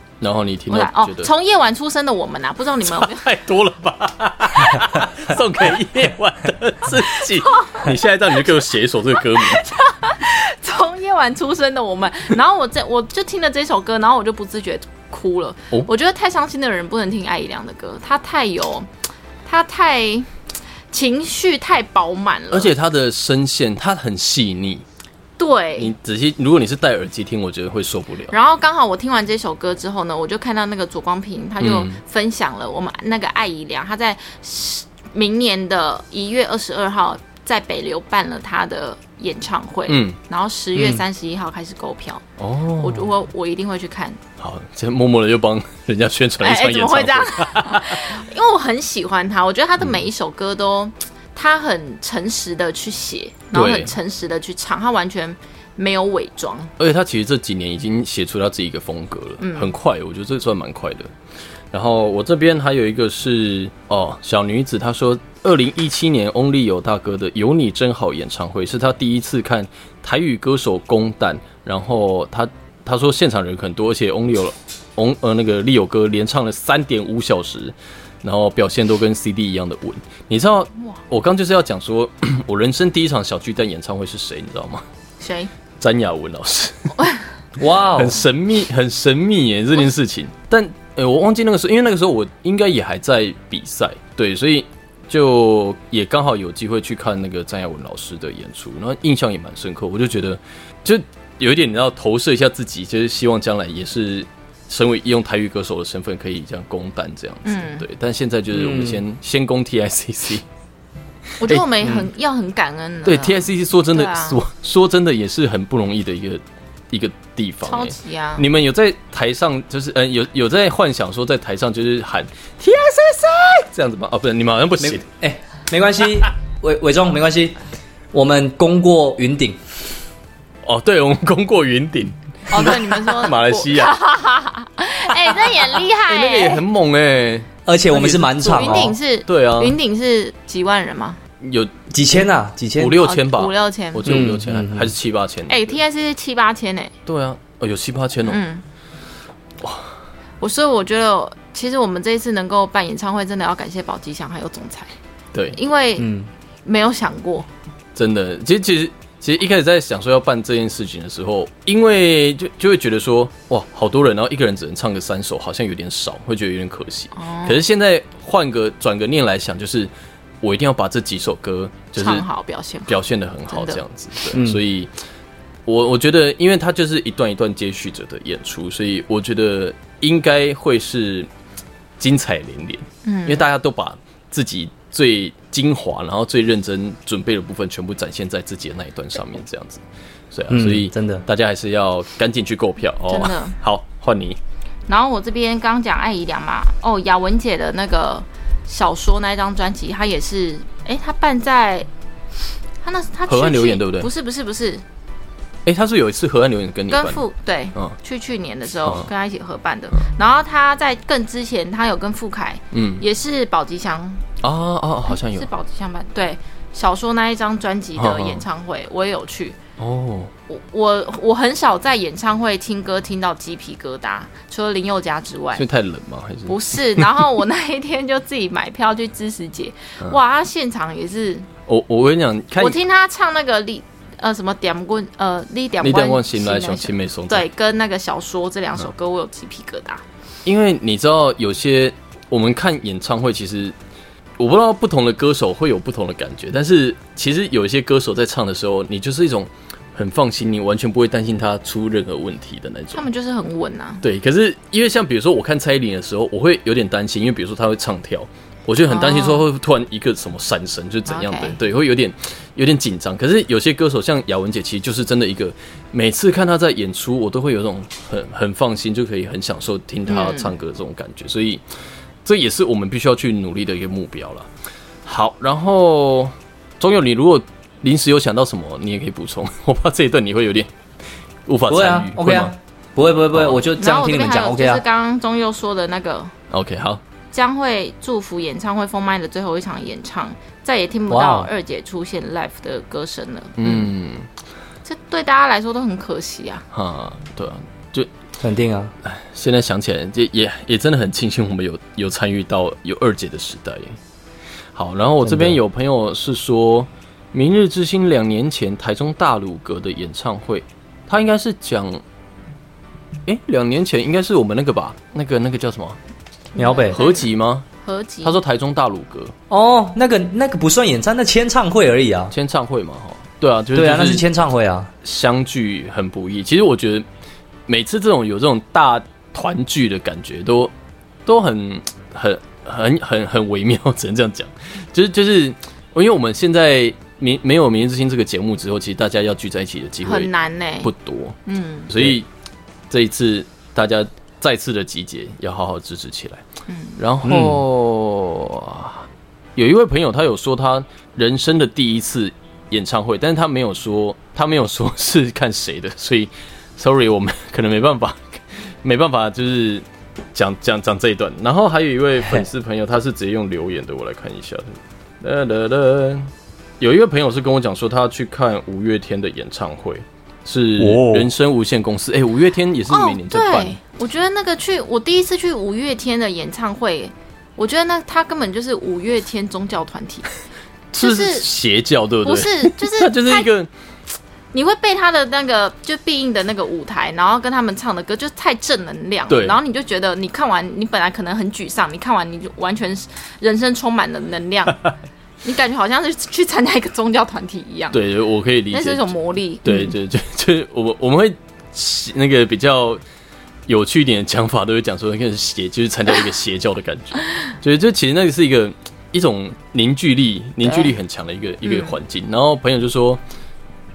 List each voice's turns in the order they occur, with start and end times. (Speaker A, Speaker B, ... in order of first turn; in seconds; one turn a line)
Speaker A: 0.2-1.3
Speaker B: 0.7-3.3
Speaker A: 2.8-9.7
Speaker B: 7.4-7.9
Speaker B: 9.2-18.9
Speaker B: 19.4-20.3
Speaker B: 20.9-22.7
Speaker A: 22.5-24.8
Speaker B: 25.4-25.9
Speaker A: 25.8-28.3
Speaker B: 28.3-42.2
Speaker A: 31.6-32.0
Speaker A: 39.9-40.2
Speaker A: 42.4-43.1
Speaker B: 42.8-44.2
Speaker A: 44.4-48.1
Speaker B: 46.4-56.7
Speaker A: 53.5-53.9
Speaker A: 56.8-61.1
Speaker B: 59.4-59.7
Speaker A: 61.7-84.8
Speaker B: 85.2-85.5
Speaker A: 85.8-86.9
Speaker C: 87.6-88.2
Speaker A: 87.9-110.4
Speaker B: 107.4-107.8
Speaker C: 108.5-109.0
Speaker B: 111.4-114.4
Speaker A: 111.4-112.0
Speaker A: 113.0-125.0
Speaker B: 117.6-118.4
Speaker C: 124.8-127.5
Speaker C: 128.1-129.6
Speaker A: 130.6-133.9
Speaker B: 132.5-136.6
Speaker A: 135.3-139.8
Speaker C: 137.7-138.9
Speaker B: 138.4-141.2
Speaker A: 141.4-141.7
Speaker C: 141.9-143.0
Speaker A: 142.8-145.8
Speaker B: 143.0-144.2
Speaker C: 144.1-144.9
Speaker B: 145.5-146.9
Speaker A: 147.1-148.4
Speaker B: 148.3-148.6
Speaker A: 149.6-149.9
Speaker B: 150.4-154.9
Speaker B: 155.5-156.1
Speaker C: 156.0-156.3
Speaker B: 156.6-157.5
Speaker A: 157.9-169.9
Speaker B: 167.1-167.6
Speaker A: 170.4-172.2
Speaker B: 172.0-173.8
Speaker A: 172.9-174.9
Speaker C: 174.3-174.6
Speaker A: 175.7-181.3
Speaker A: 182.0-194.4
Speaker B: 183.0-183.4
Speaker C: 190.5-191.2
Speaker B: 193.1-193.6
Speaker B: 194.9-201.9
Speaker B: 202.8-204.8
Speaker A: 203.3-204.1
Speaker A: 205.7-207.2
Speaker B: 206.9-214.2
Speaker A: 212.7-213.0
Speaker A: 214.4-215.5
Speaker B: 215.1-219.6
Speaker A: 217.9-218.4
Speaker A: 219.8-220.3
Speaker B: 220.5-225.6
Speaker A: 225.6-227.2
Speaker B: 226.5-231.5
Speaker A: 231.7-232.8
Speaker B: 232.6-240.0
Speaker A: 235.8-237.4
Speaker A: 240.4-243.7
Speaker A: 244.4-253.1
Speaker B: 252.9-254.0
Speaker A: 254.0-271.6
Speaker B: 258.9-259.4
Speaker B: 261.1-261.6
Speaker B: 270.1-270.5
Speaker A: 272.2-274.5
Speaker A: 275.1-280.7
Speaker A: 281.5-282.5
Speaker C: 281.7-284.8
Speaker A: 283.3-283.6
Speaker B: 283.8-286.3
Speaker A: 286.5-287.0
Speaker B: 287.3-293.9
Speaker C: 291.1-291.5
Speaker A: 293.6-294.3
Speaker B: 294.9-296.6
Speaker A: 296.7-298.1
Speaker C: 298.4-298.9
Speaker A: 299.0-304.0
Speaker A: 304.7-312.0
Speaker C: 305.2-305.6
Speaker A: 313.2-316.0
Speaker B: 316.5-317.3
Speaker C: 316.6-317.0
Speaker A: 316.9-317.6
Speaker B: 317.8-318.4
Speaker A: 318.2-319.3
Speaker C: 319.5-322.3
Speaker A: 322.3-324.2
Speaker C: 323.7-324.9
Speaker A: 325.0-327.0
Speaker A: 327.7-330.7
Speaker A: 331.2-340.3
Speaker B: 340.0-340.9
Speaker A: 340.8-341.4
Speaker B: 341.4-341.9
Speaker A: 341.9-342.2
Speaker A: 342.9-346.4
Speaker B: 346.7-347.0
Speaker A: 347.0-349.0
Speaker C: 347.2-347.6
Speaker A: 349.6-373.8
Speaker C: 370.8-371.3
Speaker B: 372.9-380.3
Speaker A: 380.9-383.7
Speaker B: 380.9-381.5
Speaker B: 382.2-383.5
Speaker B: 384.5-394.8
Speaker A: 389.3-389.6
Speaker B: 395.4-398.0
Speaker A: 397.9-399.1
Speaker B: 398.7-399.9
Speaker A: 399.6-403.0
Speaker A: 403.7-413.2
Speaker B: 410.6-410.9
Speaker B: 411.6-411.9